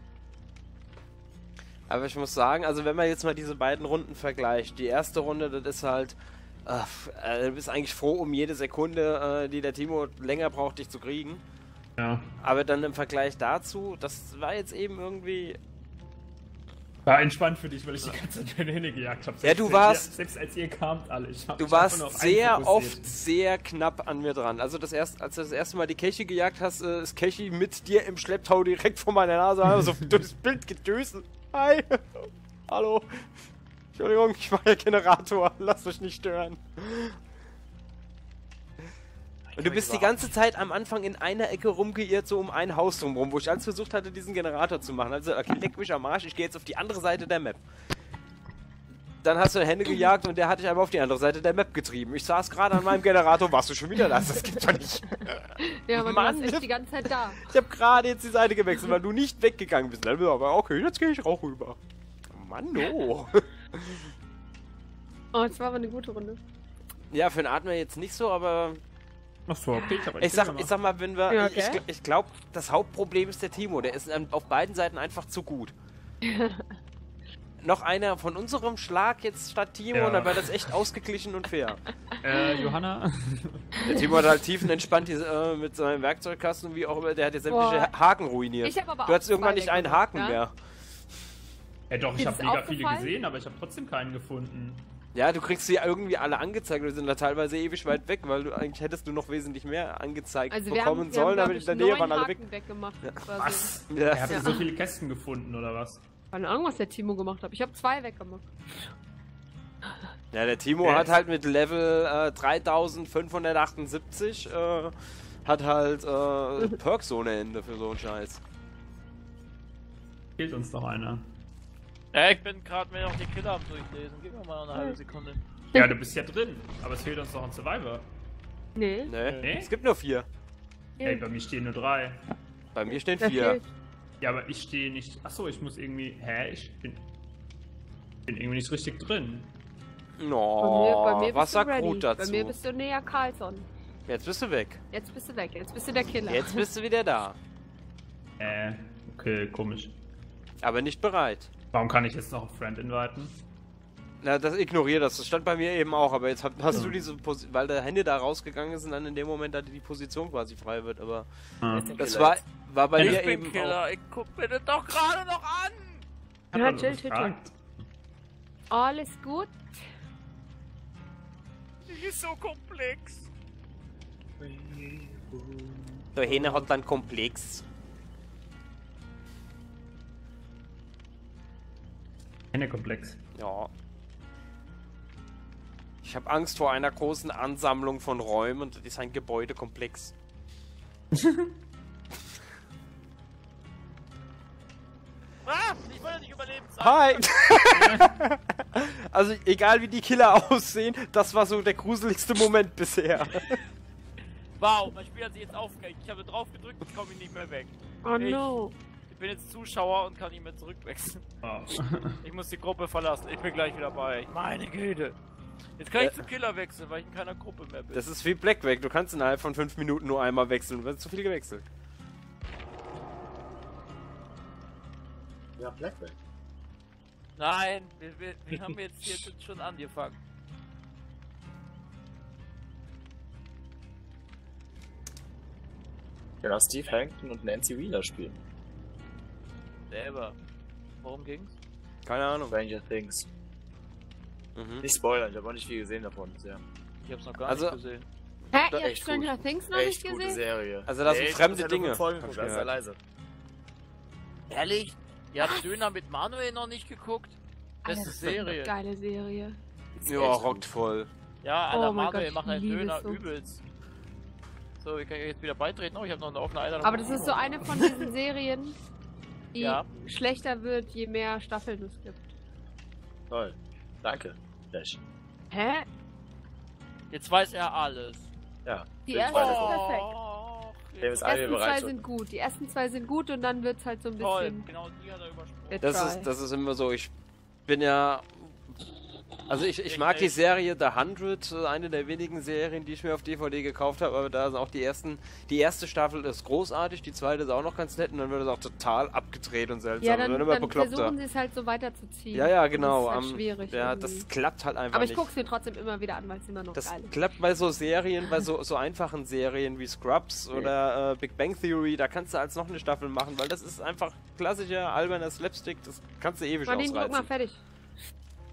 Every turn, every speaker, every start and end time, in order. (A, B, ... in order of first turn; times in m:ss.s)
0:01.9-0:11.4 A
0:12.0-0:12.3 B
0:12.4-0:15.6 A
0:17.0-0:23.1 B
0:19.4-0:20.1 A
0:21.6-0:33.3 A
0:34.0-0:37.2 A
0:39.5-0:40.2 C
0:39.6-0:47.6 A
0:49.2-0:56.7 A
0:55.1-0:57.5 D
0:57.3-1:01.8 A
1:02.3-1:04.1 A
1:05.3-1:06.4 D
1:07.1-1:08.8 A
1:09.5-1:10.7 B
1:09.7-1:10.1 D
1:10.2-1:15.7 A
1:11.3-1:11.8 D
1:16.2-1:16.7 D
1:17.6-1:21.8 A
1:19.9-1:20.7 B
1:22.2-1:23.9 B
1:23.9-1:30.6 A
1:27.5-1:28.0 D
1:28.6-1:30.4 D
1:31.9-1:34.9 B
1:32.2-1:33.2 D
1:35.2-1:42.4 A
1:40.5-1:43.7 D
1:43.4-1:46.0 B
1:43.9-1:44.4 A
1:44.3-1:44.6 D
1:46.3-1:48.9 D
1:50.3-1:58.4 A
1:50.8-1:51.1 B
2:00.4-2:01.3 B
2:02.1-2:05.4 E
2:04.7-2:05.0 D
2:05.8-2:08.1 B
2:08.8-2:09.2 D
2:09.1-2:10.3 A
2:09.4-2:09.7 B
2:11.0-2:11.3 D
2:11.0-2:12.2 B
2:12.7-2:13.6 A
2:13.2-2:13.7 D
2:14.2-2:17.1 B
2:18.3-2:19.5 B
2:20.2-2:22.6 A
2:20.6-2:23.7 D
2:24.1-2:24.8 A
2:24.9-2:26.7 D
2:26.3-2:27.4 A
2:28.4-2:30.0 B
2:30.6-2:31.5 A
2:31.7-2:33.4 B
2:34.2-2:41.3 A
2:36.7-2:37.0 B
2:41.6-2:42.0 B
2:41.7-2:42.4 C
2:42.0-2:43.8 A
2:43.0-2:43.2 B
2:43.0-2:46.1 E
2:46.5-2:47.4 D
2:46.5-2:47.8 B
2:48.7-2:49.8 D
2:51.9-2:53.3 E
2:54.4-2:56.5 C
2:56.2-2:57.6 A
3:02.5-3:03.2 B
3:03.4-3:03.7 A
3:06.0-3:10.2 A
3:11.1-3:11.5 B
3:15.4-3:17.5 E
3:16.8-3:23.6 A
3:24.6-3:28.5 E
3:28.0-3:28.8 D
3:29.1-3:31.2 E
3:31.4-3:32.2 B
3:32.2-3:35.2 E
3:35.8-3:38.0 E
3:37.9-3:41.7 A
3:45.6-3:46.2 C
3:47.4-3:50.2 E
3:48.5-3:49.3 C
3:56.4-3:58.4 C
3:59.9-4:00.4 E
4:01.0-4:01.6 E
4:02.0-4:02.6 A
4:02.5-4:03.3 C
4:04.6-4:04.9 A
4:04.8-4:06.6 C
4:07.0-4:08.1 E
4:07.5-4:07.8 A
4:08.5-4:10.4 D
4:08.7-4:13.0 C
4:10.9-4:12.7 A
4:14.5-4:18.7 E
4:15.4-4:15.8 D
4:17.8-4:19.6 D
4:20.0-4:20.7 C
4:20.1-4:21.1 A
4:21.4-4:23.6 E
4:21.7-4:23.2 D
4:24.8-4:28.0 E
4:26.8-4:28.8 D
4:29.5-4:32.3 D
4:29.6-4:29.9 E
4:33.3-4:35.0 C
4:35.5-4:35.9 D
4:37.1-4:38.3 E
4:38.6-4:39.8 C
4:39.1-4:40.1 D
4:39.3-4:41.6 E
4:41.0-4:42.0 C
4:41.2-4:44.7 D
4:44.2-4:45.9 E
4:45.7-4:46.3 D
4:45.8-4:47.1 A
4:47.7-4:48.6 A
4:49.5-5:01.2 A
4:49.9-4:50.4 E
5:00.0-5:04.3 D
5:02.3-5:05.3 A
5:04.9-5:07.1 D
5:06.8-5:17.3 A
5:16.7-5:17.6 D